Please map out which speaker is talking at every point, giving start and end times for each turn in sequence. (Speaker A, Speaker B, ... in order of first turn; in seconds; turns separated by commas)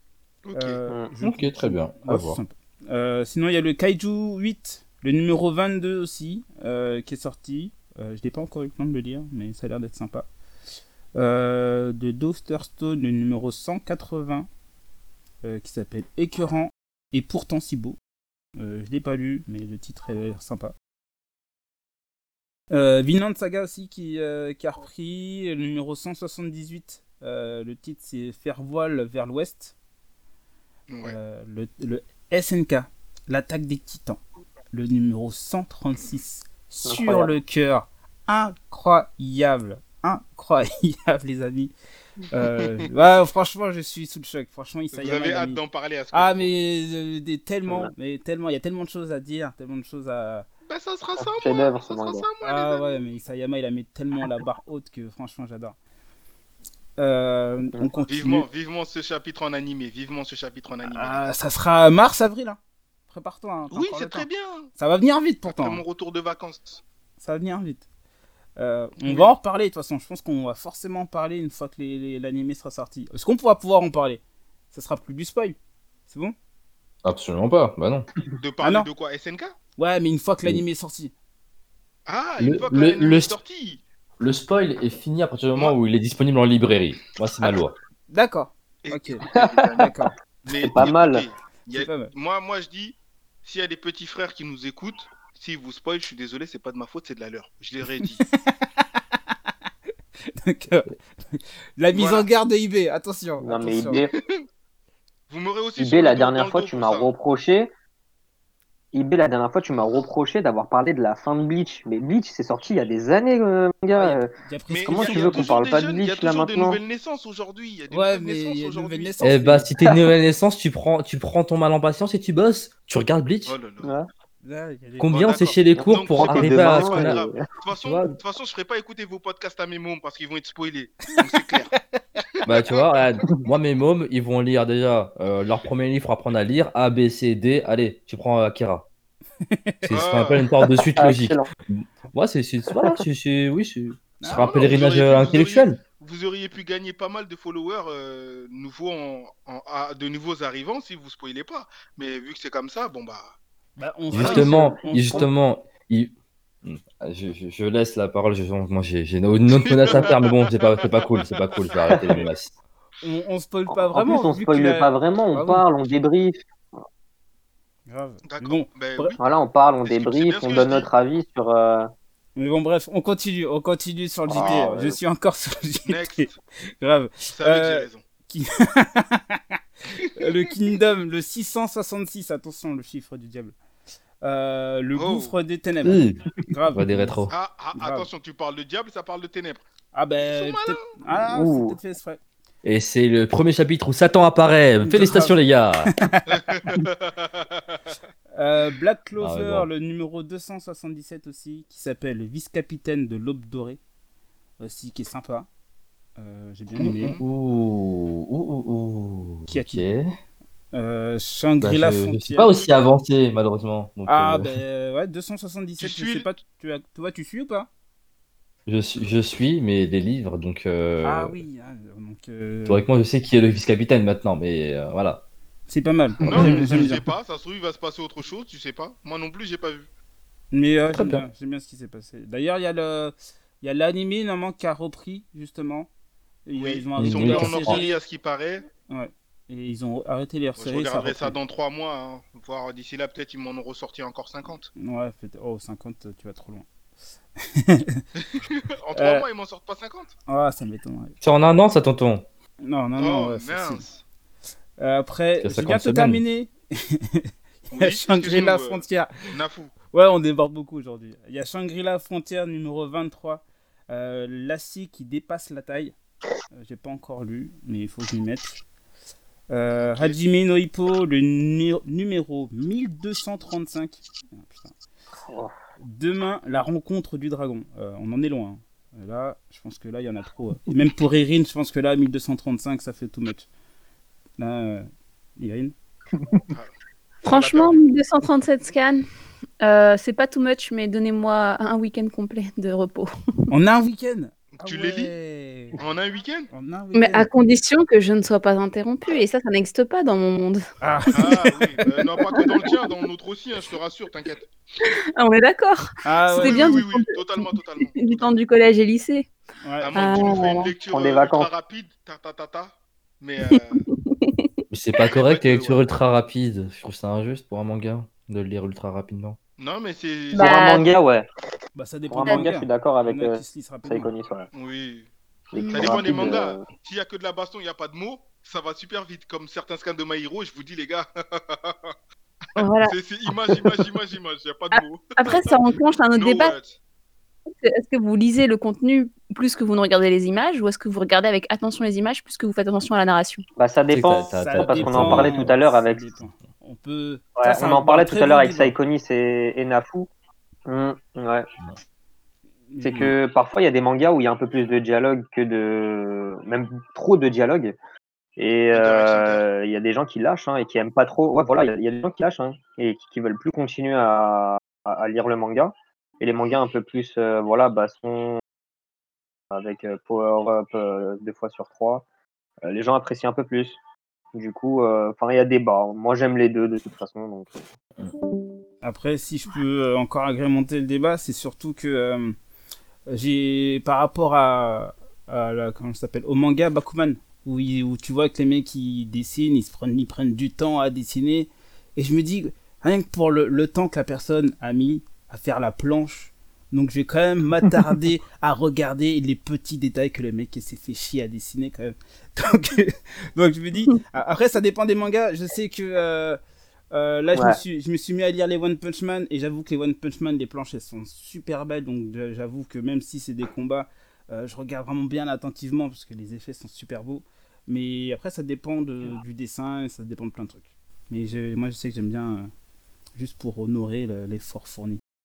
Speaker A: 0.5-0.8, Speaker B: 0.5-10.3, Speaker C: 1.2-2.4, Speaker B: 11.1-14.5, Speaker B: 15.4-18.0, Speaker B: 18.6-20.7, Speaker B: 22.7-29.7, Speaker A: 30.9-31.2, Speaker B: 31.0-34.2, Speaker B: 34.7-41.7, Speaker D: 36.9-37.3, Speaker B: 42.3-45.6, Speaker A: 42.6-42.9, Speaker A: 44.9-46.5, Speaker B: 46.1-50.5, Speaker A: 50.7-52.9, Speaker D: 51.2-52.2, Speaker B: 52.4-55.8, Speaker B: 57.0-58.5, Speaker A: 58.1-61.3, Speaker B: 60.9-62.6, Speaker B: 63.1-65.8, Speaker A: 63.7-64.7, Speaker A: 65.5-66.8, Speaker B: 67.2-67.8, Speaker B: 68.6-75.5, Speaker A: 69.0-69.3, Speaker B: 76.1-76.3, Speaker C: 77.0-78.1, Speaker A: 78.4-79.5, Speaker B: 78.6-78.9, Speaker B: 79.8-81.1, Speaker A: 82.0-83.8, Speaker C: 82.4-83.4, Speaker C: 84.2-87.8, Speaker B: 88.1-89.3, Speaker A: 88.8-98.2, Speaker D: 89.3-89.8, Speaker B: 89.8-90.1, Speaker D: 90.6-91.2, Speaker B: 91.7-92.1, Speaker B: 98.0-99.0, Speaker B: 100.3-104.0, Speaker A: 101.9-102.3, Speaker D: 103.4-104.1, Speaker A: 104.2-104.4, Speaker A: 105.3-107.1, Speaker D: 105.8-107.7, Speaker D: 108.9-114.3, Speaker B: 113.9-115.6, Speaker A: 114.7-119.2, Speaker D: 114.8-116.8, Speaker B: 117.9-119.7, Speaker C: 119.2-123.6, Speaker A: 123.5-123.9, Speaker D: 123.8-124.1, Speaker B: 124.4-125.3, Speaker C: 125.0-127.2, Speaker A: 125.1-131.7, Speaker D: 125.7-128.1, Speaker B: 131.1-132.2, Speaker A: 132.4-132.8, Speaker C: 132.4-138.8, Speaker B: 139.4-139.9, Speaker C: 139.8-145.8, Speaker A: 139.9-140.4, Speaker D: 140.9-141.5, Speaker D: 142.7-143.0, Speaker B: 144.2-145.4, Speaker A: 144.3-153.4, Speaker B: 153.8-155.3, Speaker C: 154.1-156.1, Speaker A: 154.1-154.5, Speaker C: 156.6-162.5, Speaker A: 159.6-161.9, Speaker B: 163.0-165.7, Speaker D: 163.8-166.4, Speaker B: 167.9-169.2, Speaker A: 168.2-169.2, Speaker D: 169.2-171.9, Speaker A: 169.8-170.9, Speaker B: 172.3-176.3, Speaker D: 174.3-174.9, Speaker A: 174.4-174.7, Speaker A: 175.8-176.4, Speaker B: 176.8-183.5, Speaker A: 177.3-178.0, Speaker A: 180.0-180.3, Speaker B: 184.2-188.1, Speaker A: 184.9-185.3, Speaker C: 185.8-187.3, Speaker A: 187.3-189.6, Speaker B: 189.9-192.2, Speaker A: 190.3-190.9, Speaker D: 191.3-191.8, Speaker C: 192.6-195.9, Speaker B: 194.8-196.7, Speaker A: 196.3-197.9, Speaker B: 198.3-203.8, Speaker C: 199.2-199.7, Speaker B: 204.6-205.5, Speaker B: 206.2-207.2, Speaker C: 206.8-210.1, Speaker A: 206.9-207.2, Speaker B: 209.5-209.8, Speaker B: 210.7-212.5, Speaker C: 211.6-214.5, Speaker B: 214.1-217.7, Speaker A: 215.8-216.2, Speaker C: 218.7-221.4, Speaker B: 221.0-222.8, Speaker C: 222.7-225.2, Speaker B: 225.7-227.0, Speaker A: 226.2-229.9, Speaker C: 226.3-226.7, Speaker B: 230.5-235.9, Speaker B: 236.4-238.0, Speaker A: 236.5-238.7, Speaker C: 237.0-237.8, Speaker B: 238.9-241.3, Speaker A: 240.6-244.7, Speaker B: 244.8-246.7, Speaker B: 247.4-248.0, Speaker A: 248.2-250.1, Speaker B: 248.9-249.2, Speaker B: 250.3-251.1, Speaker C: 251.2-252.2, Speaker B: 252.6-253.8, Speaker A: 253.0-254.0, Speaker B: 254.8-259.1, Speaker C: 255.4-256.2, Speaker A: 257.7-259.8, Speaker B: 259.9-265.9, Speaker B: 266.5-268.6, Speaker B: 269.5-274.7, Speaker A: 269.7-270.2, Speaker B: 275.8-283.5, Speaker B: 284.4-285.7, Speaker E: 287.2-289.0, Speaker A: 287.2-287.8, Speaker E: 289.6-293.1, Speaker B: 293.5-295.8, Speaker A: 294.5-295.1, Speaker A: 295.8-296.5, Speaker B: 296.5-297.3, Speaker E: 296.9-302.8, Speaker B: 300.8-301.4, Speaker A: 301.1-304.5, Speaker E: 304.8-309.3, Speaker B: 306.0-306.8, Speaker A: 306.3-308.3, Speaker B: 309.6-310.1, Speaker A: 309.8-313.8, Speaker E: 309.9-310.7, Speaker D: 310.9-311.5, Speaker E: 313.5-314.5, Speaker C: 314.7-319.4, Speaker A: 315.1-315.8, Speaker A: 319.6-320.8, Speaker E: 320.3-320.8, Speaker D: 320.4-321.3, Speaker B: 321.7-324.1, Speaker D: 322.1-324.5, Speaker A: 324.5-325.1, Speaker D: 325.5-326.7, Speaker E: 325.6-326.2, Speaker A: 325.7-331.9, Speaker E: 332.6-332.9, Speaker A: 332.8-335.5, Speaker E: 334.7-336.5, Speaker A: 336.1-336.8, Speaker E: 337.6-343.4, Speaker D: 343.6-346.0, Speaker C: 343.9-345.5, Speaker B: 344.3-348.7, Speaker D: 347.4-350.1, Speaker D: 350.7-351.5, Speaker B: 352.7-353.1, Speaker D: 352.8-357.8, Speaker D: 358.4-368.4, Speaker A: 358.7-359.4, Speaker D: 369.5-372.0, Speaker D: 372.6-373.8, Speaker D: 374.3-377.6, Speaker B: 378.8-382.4, Speaker B: 383.1-406.4, Speaker B: 406.9-422.5, Speaker B: 423.1-425.0